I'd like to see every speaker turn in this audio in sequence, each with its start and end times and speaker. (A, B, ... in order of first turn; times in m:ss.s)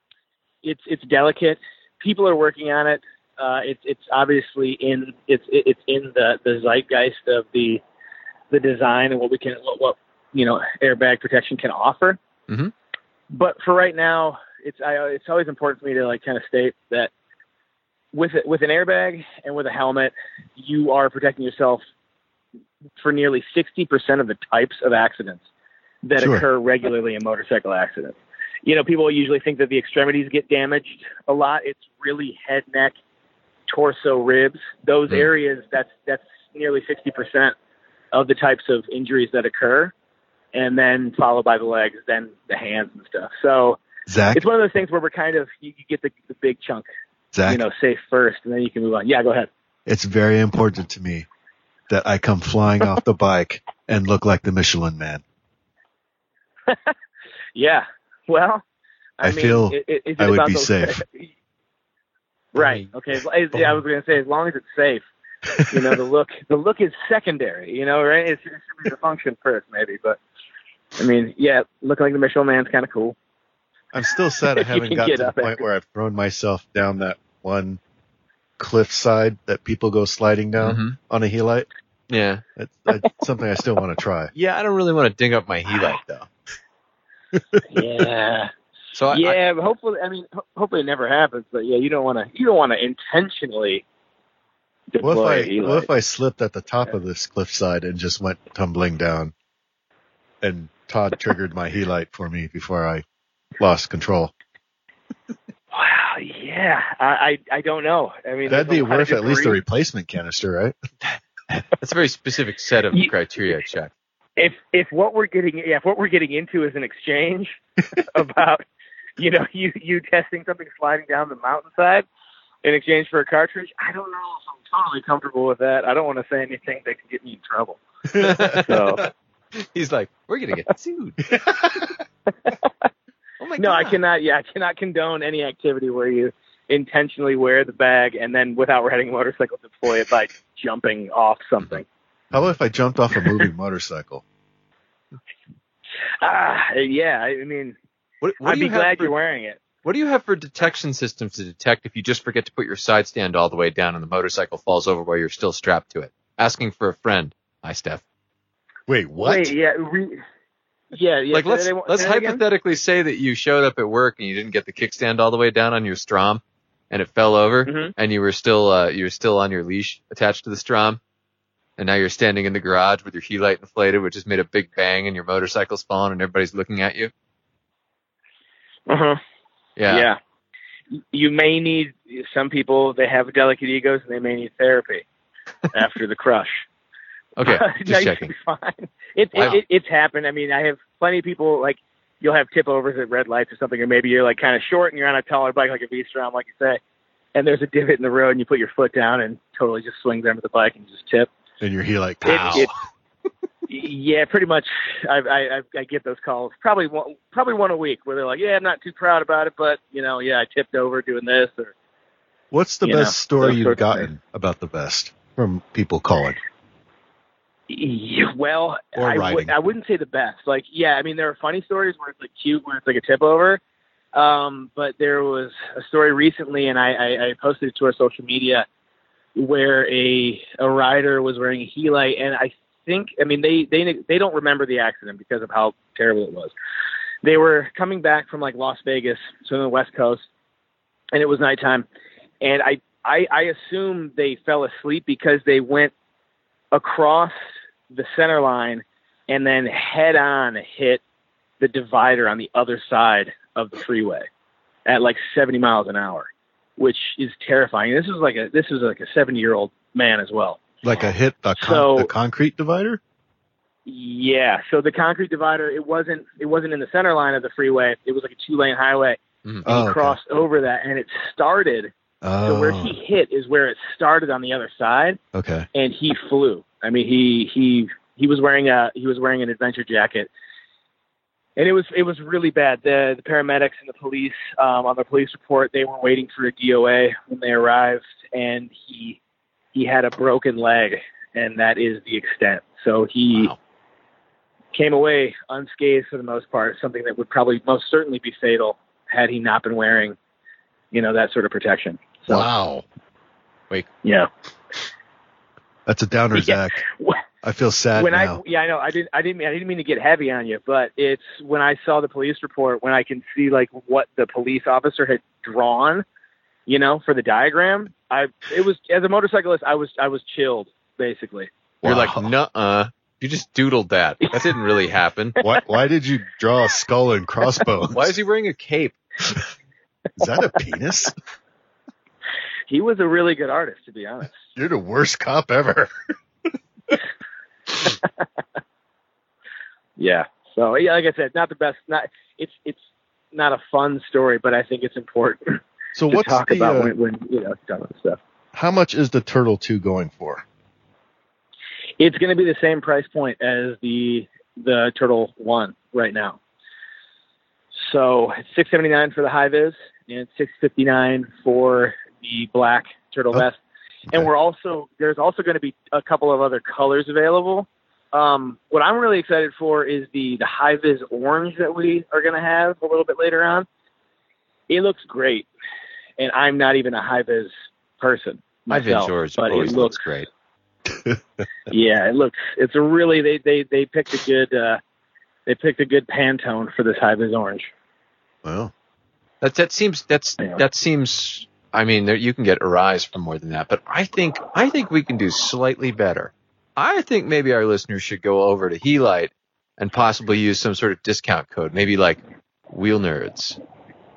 0:00.6-0:07.8 A
0:08.5-0:12.2 A
0:13.3-0:17.1 A
0:18.1-0:21.8 A
0:23.0-0:25.4 A
0:26.0-0:32.9 A
0:26.2-0:26.4 B
0:33.7-0:37.5 A
0:38.1-0:39.9 A
0:40.5-0:43.8 A
0:44.1-0:44.4 B
0:44.3-0:46.8 A
0:47.3-0:47.6 B
0:47.4-0:49.5 A
0:49.9-0:51.3 B
0:51.9-0:55.2 B
0:56.7-0:56.9 A
0:57.5-0:58.6 A
0:59.2-1:01.3 A
0:59.2-1:01.0 B
1:02.5-1:05.0 A
1:02.6-1:02.9 C
1:05.5-1:05.9 B
1:05.6-1:10.2 A
1:11.0-1:13.1 A
1:13.9-1:17.8 B
1:14.5-1:15.6 A
1:18.6-1:21.7 B
1:20.6-1:21.0 C
1:22.1-1:22.4 C
1:22.6-1:24.3 B
1:24.3-1:26.3 C
1:27.3-1:27.6 B
1:27.7-1:28.5 A
1:28.9-1:29.4 C
1:29.1-1:33.8 A
1:34.9-1:35.9 A
1:35.0-1:39.3 B
1:40.4-1:43.0 B
1:43.6-1:44.3 B
1:45.7-1:49.6 A
1:48.5-1:50.7 B
1:51.8-1:53.9 C
1:54.4-1:58.6 A
1:59.2-2:02.0 A
2:02.6-2:07.8 A
2:08.1-2:08.6 B
2:08.2-2:09.0 C
2:08.4-2:09.0 A
2:09.6-2:11.2 C
2:11.3-2:12.0 B
2:13.4-2:14.0 C
2:13.6-2:21.8 A
2:22.3-2:24.2 B
2:26.2-2:27.8 A
2:28.2-2:29.1 C
2:28.4-2:29.6 A
2:29.8-2:38.0 C
2:38.9-2:39.5 B
2:39.2-2:40.2 A
2:40.9-2:42.4 A
2:41.3-2:51.0 C
2:47.7-2:47.9 A
2:51.8-2:57.1 C
2:58.9-2:59.2 A
2:59.8-3:00.1 C
2:59.9-3:00.2 A
3:00.9-3:05.0 A
3:05.7-3:06.6 A
3:07.4-3:08.3 C
3:07.4-3:16.8 A
3:09.3-3:09.6 C
3:17.3-3:21.3 A
3:21.6-3:22.7 B
3:22.3-3:22.7 C
3:22.3-3:22.7 A
3:23.7-3:31.7 A
3:32.5-3:36.4 B
3:32.8-3:34.1 A
3:37.7-3:43.6 A
3:39.0-3:39.5 B
3:44.1-3:48.6 A
3:49.4-3:56.5 A
3:57.2-4:00.2 A
4:01.1-4:01.8 A
4:02.4-4:05.9 A
4:06.7-4:07.3 A
4:07.9-4:11.0 A
4:11.6-4:14.2 A
4:14.8-4:20.8 A
4:20.8-4:23.0 B
4:21.6-4:22.1 A
4:23.8-4:31.9 A
4:29.6-4:30.2 B
4:32.2-4:33.0 B
4:32.4-4:35.2 A
4:35.3-4:35.7 B
4:35.7-4:40.3 A
4:41.6-4:49.2 A
4:49.7-4:53.5 A
4:54.7-5:00.2 A
5:00.9-5:02.5 A
5:02.3-5:02.8 B
5:04.0-5:04.3 A
5:05.9-5:06.8 B
5:06.3-5:07.2 A
5:07.4-5:08.4 B
5:08.0-5:16.0 A
5:16.7-5:21.5 A
5:21.8-5:22.3 B
5:21.8-5:25.4 C
5:25.4-5:28.1 B
5:27.9-5:29.0 C
5:30.2-5:31.1 B
5:32.7-5:34.4 A
5:34.6-5:35.9 B
5:40.0-5:42.8 A
5:43.3-5:48.2 A
5:45.9-5:46.9 B
5:48.5-5:50.4 B
5:52.0-5:56.4 A
5:57.7-6:03.6 A
6:04.1-6:13.7 A
6:14.7-6:15.5 A
6:16.2-6:20.0 A
6:18.7-6:20.3 C
6:20.9-6:21.4 B
6:21.7-6:24.8 A
6:25.4-6:27.7 A
6:28.4-6:28.7 B
6:29.4-6:42.2 C
6:42.7-6:43.6 C